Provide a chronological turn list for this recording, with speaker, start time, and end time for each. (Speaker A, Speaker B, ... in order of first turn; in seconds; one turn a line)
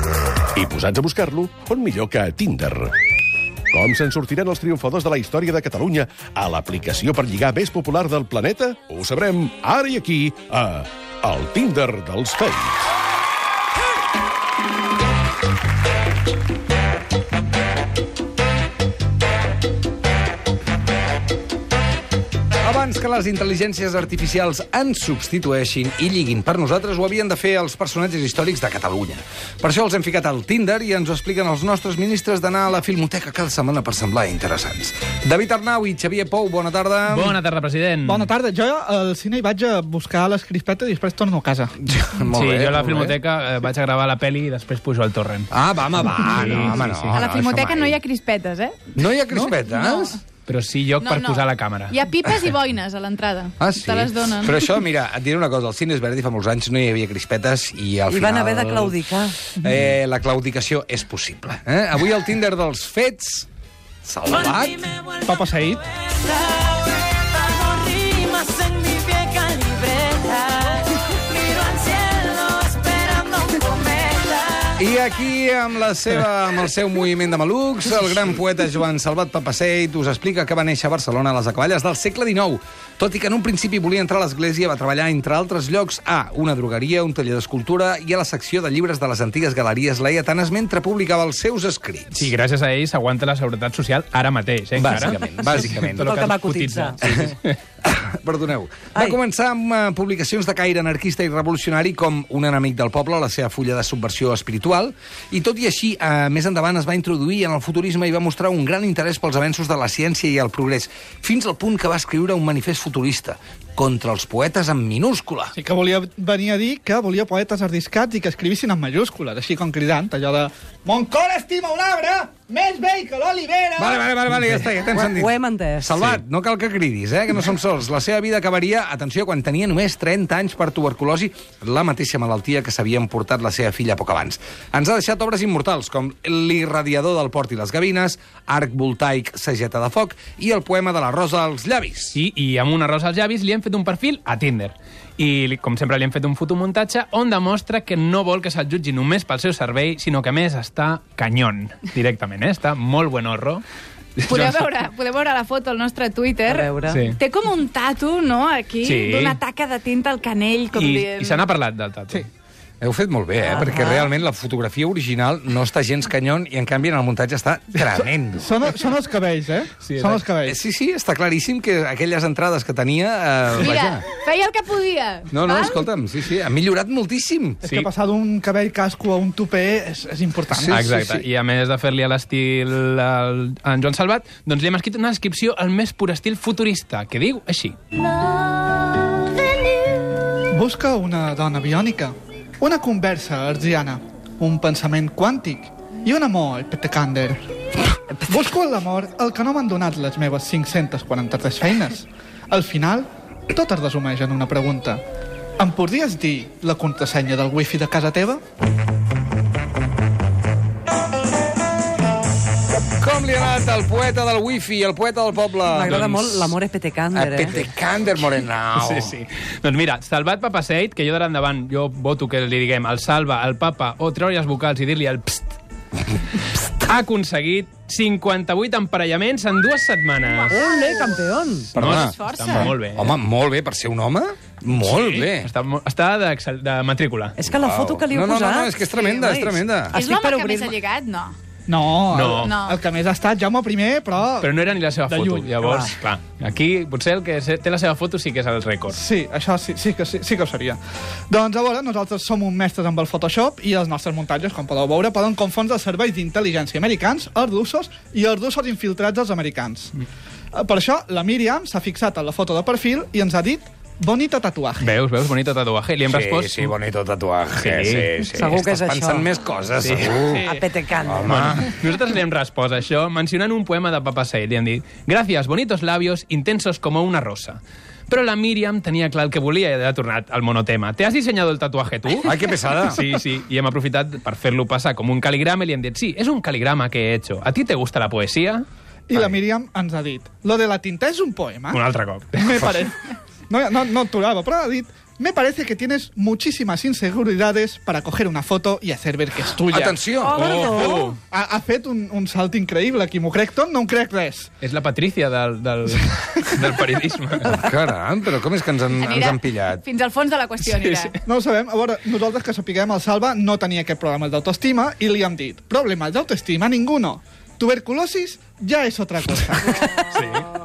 Speaker A: 0.5-2.9
Speaker A: 3.7-12.9
Speaker B: 22.6-37.4
Speaker C: 37.1-38.3
Speaker D: 38.0-41.8
Speaker B: 41.8-43.1
Speaker C: 42.3-45.5
Speaker B: 45.5-48.0
Speaker C: 46.1-47.2
Speaker E: 47.1-48.9
Speaker B: 48.9-50.2
Speaker E: 49.5-50.2
Speaker C: 50.5-52.0
Speaker E: 51.0-54.7
Speaker B: 53.6-63.5
Speaker F: 58.1-59.5
Speaker B: 64.0-64.8
Speaker D: 65.2-65.9
Speaker F: 67.7-74.7
Speaker B: 74.8-92.3
Speaker C: 92.1-97.6
Speaker B: 94.8-96.1
Speaker F: 96.0-97.0
Speaker B: 97.0-97.3
Speaker B: 97.8-115.5
Speaker D: 115.5-124.1
Speaker B: 123.8-142.2
Speaker F: 124.9-126.0
Speaker C: 142.1-153.6
Speaker C: 154.2-154.7
Speaker E: 154.3-161.5
Speaker F: 156.5-157.1
Speaker C: 156.9-157.2
Speaker C: 158.8-159.4
Speaker C: 160.7-162.2
Speaker B: 162.8-168.5
Speaker F: 163.4-164.1
Speaker D: 168.4-170.6
Speaker C: 169.8-170.2
Speaker B: 170.4-174.0
Speaker E: 173.6-175.8
Speaker B: 175.3-177.6
Speaker D: 177.6-181.0
Speaker B: 180.5-181.2
Speaker C: 180.7-187.8
Speaker D: 190.5-197.5
Speaker D: 198.2-205.0
Speaker D: 205.6-208.4
Speaker B: 213.0-216.2
Speaker F: 215.7-217.6
Speaker C: 215.8-216.5
Speaker B: 217.1-219.2
Speaker C: 218.8-225.6
Speaker C: 226.3-230.6
Speaker E: 230.2-231.2
Speaker F: 230.5-231.7
Speaker C: 231.7-233.1
Speaker B: 231.7-235.5
Speaker E: 231.8-232.7
Speaker C: 234.8-237.3
Speaker F: 237.4-240.8
Speaker B: 237.4-240.0
Speaker E: 239.9-241.3
Speaker D: 241.7-244.5
Speaker C: 242.1-242.6
Speaker E: 242.3-242.8
Speaker C: 244.4-249.0
Speaker D: 245.1-245.8
Speaker F: 245.6-245.9
Speaker D: 248.9-250.8
Speaker D: 251.3-259.9
Speaker D: 260.5-264.9
Speaker C: 264.8-266.7
Speaker B: 266.1-270.4
Speaker C: 267.6-268.1
Speaker F: 268.3-269.2
Speaker C: 269.8-270.3
Speaker F: 270.4-271.5
Speaker B: 271.0-271.7
Speaker C: 271.2-289.4
Speaker B: 282.2-283.0
Speaker D: 289.1-291.8
Speaker C: 291.7-292.6
Speaker D: 292.3-300.0
Speaker B: 299.7-300.4
Speaker E: 300.2-301.1
Speaker C: 300.3-301.1
Speaker F: 300.4-301.1
Speaker D: 301.3-304.5
Speaker C: 304.6-307.6
Speaker B: 307.4-309.8
Speaker E: 309.0-311.1
Speaker C: 310.7-311.1
Speaker D: 311.2-320.0
Speaker C: 320.1-320.5